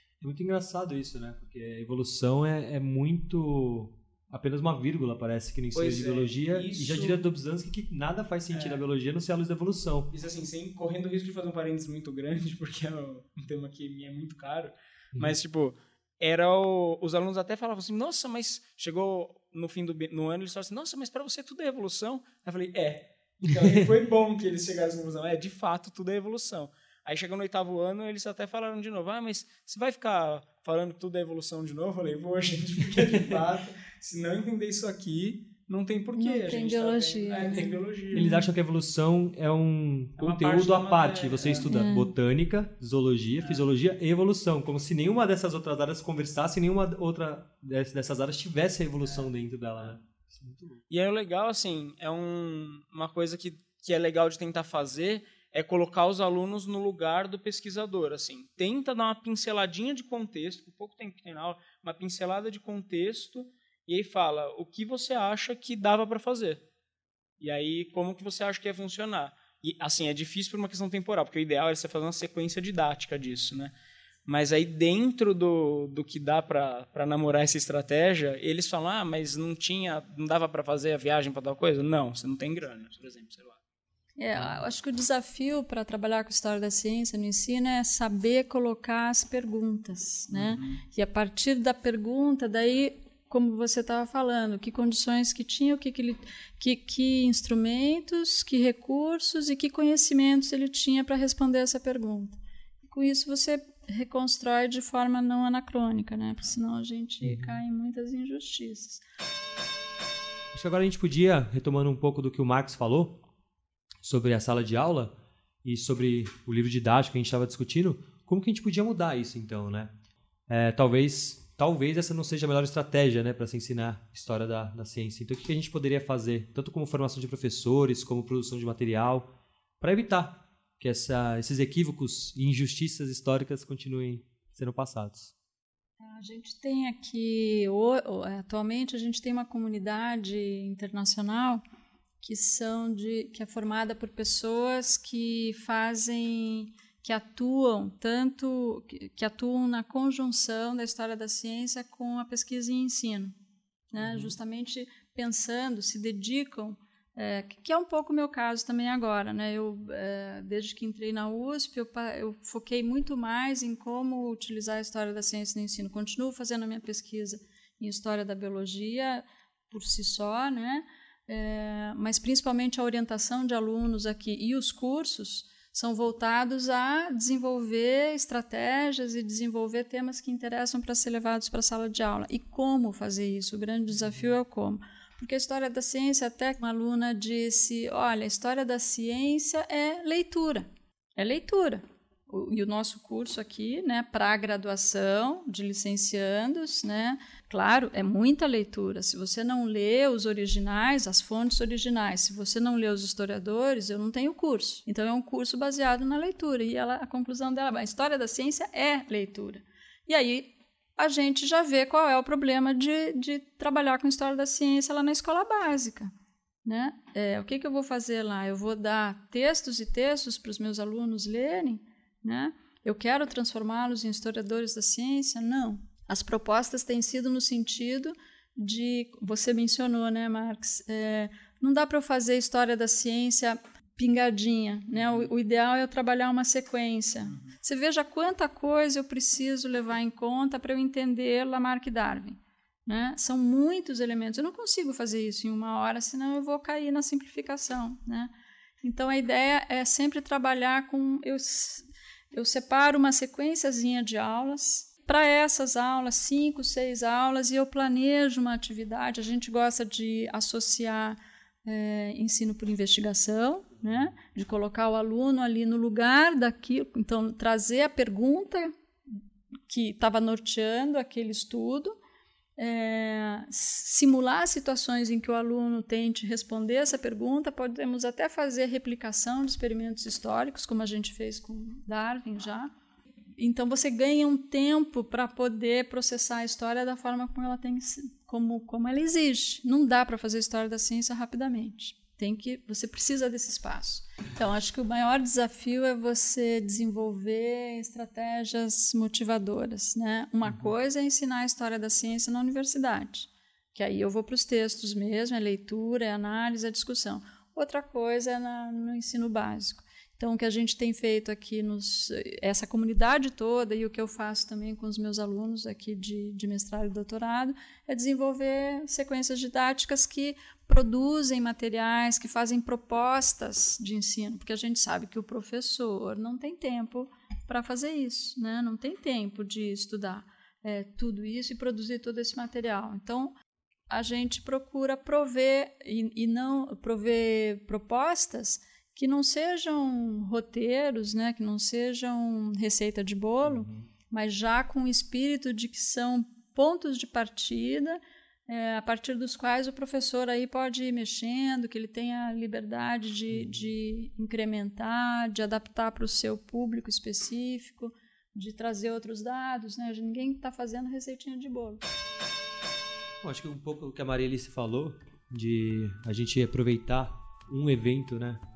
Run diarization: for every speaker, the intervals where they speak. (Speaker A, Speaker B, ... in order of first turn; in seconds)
Speaker A: 0.2-10.1, 23.5-23.8, 38.1-50.8, 107.2-107.6, 110.5-113.2, 114.0-119.9, 120.5-129.3, 129.8-135.3, 154.0-154.3, 300.4-300.7, 343.4-343.9, 353.3-353.7, 363.2-368.4
Speaker B: 5.7-7.2, 8.5-8.8, 10.1-38.2, 40.2-41.7, 50.9-66.6, 67.4-73.7, 74.2-83.6, 90.3-90.8
Speaker C: 36.1-38.5, 41.6-42.1, 84.2-109.0, 136.0-141.6, 142.2-153.3, 153.9-216.1, 216.6-248.3, 248.8-269.2, 269.7-271.9, 272.6-282.7, 283.4-333.3, 333.9-361.8